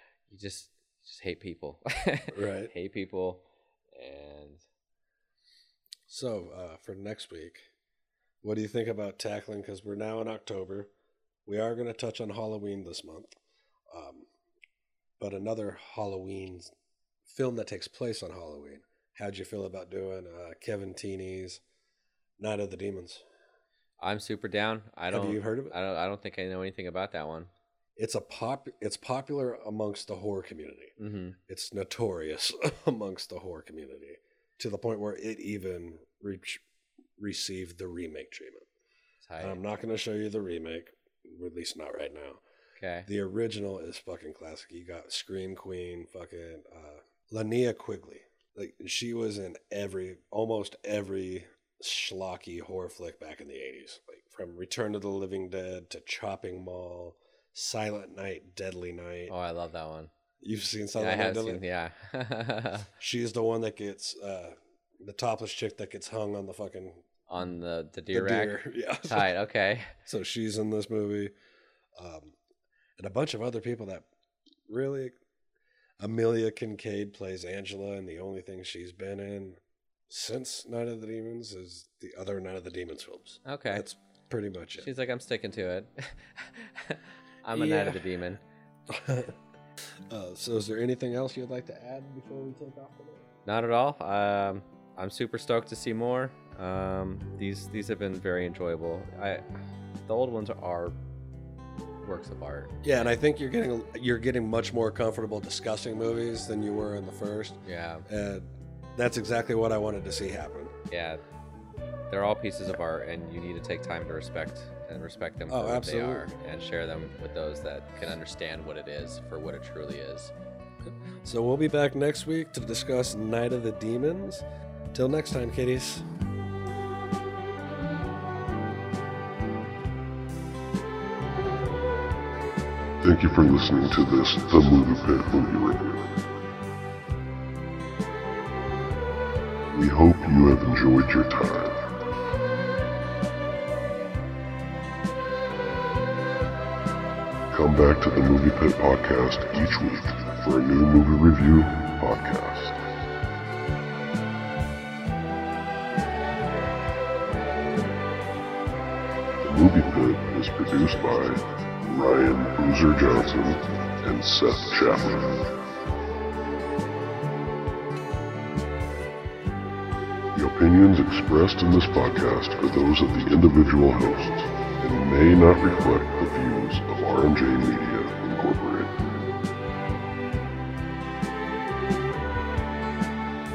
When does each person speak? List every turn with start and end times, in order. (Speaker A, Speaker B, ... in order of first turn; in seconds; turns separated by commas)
Speaker A: 0.3-3.4, Speaker B: 2.3-2.7, Speaker A: 4.0-4.6, Speaker B: 6.1-7.7, Speaker B: 8.4-10.9, Speaker B: 11.4-13.4, Speaker B: 13.9-14.3, Speaker B: 15.2-16.7, Speaker B: 17.3-21.6, Speaker B: 22.4-23.2, Speaker A: 24.0-27.5, Speaker B: 25.1-25.8, Speaker B: 28.0-30.9, Speaker A: 31.0-31.4, Speaker B: 31.5-36.6, Speaker B: 37.2-38.6, Speaker A: 39.2-39.6, Speaker B: 39.4-42.4, Speaker A: 42.8-43.1, Speaker B: 43.0-59.3, Speaker A: 59.3-60.1, Speaker B: 60.4-61.6, Speaker A: 61.0-62.9, Speaker B: 63.0-67.0, Speaker A: 67.3-69.9, Speaker B: 68.1-69.3, Speaker B: 70.0-71.3, Speaker B: 72.0-72.3, Speaker B: 73.0-74.1, Speaker B: 74.7-75.1, Speaker B: 76.0-84.9, Speaker A: 83.4-83.8, Speaker A: 84.8-88.4, Speaker B: 87.5-88.0, Speaker B: 88.9-89.3, Speaker B: 90.1-93.2, Speaker A: 93.5-101.0, Speaker A: 102.0-102.7, Speaker B: 102.8-110.7, Speaker A: 107.6-108.0, Speaker A: 110.9-111.2, Speaker A: 112.1-120.3, Speaker B: 115.5-116.3, Speaker B: 120.8-126.1, Speaker C: 133.0-136.2, Speaker C: 139.7-141.9, Speaker C: 147.5-152.8, Speaker C: 159.4-165.5, Speaker C: 170.3-179.0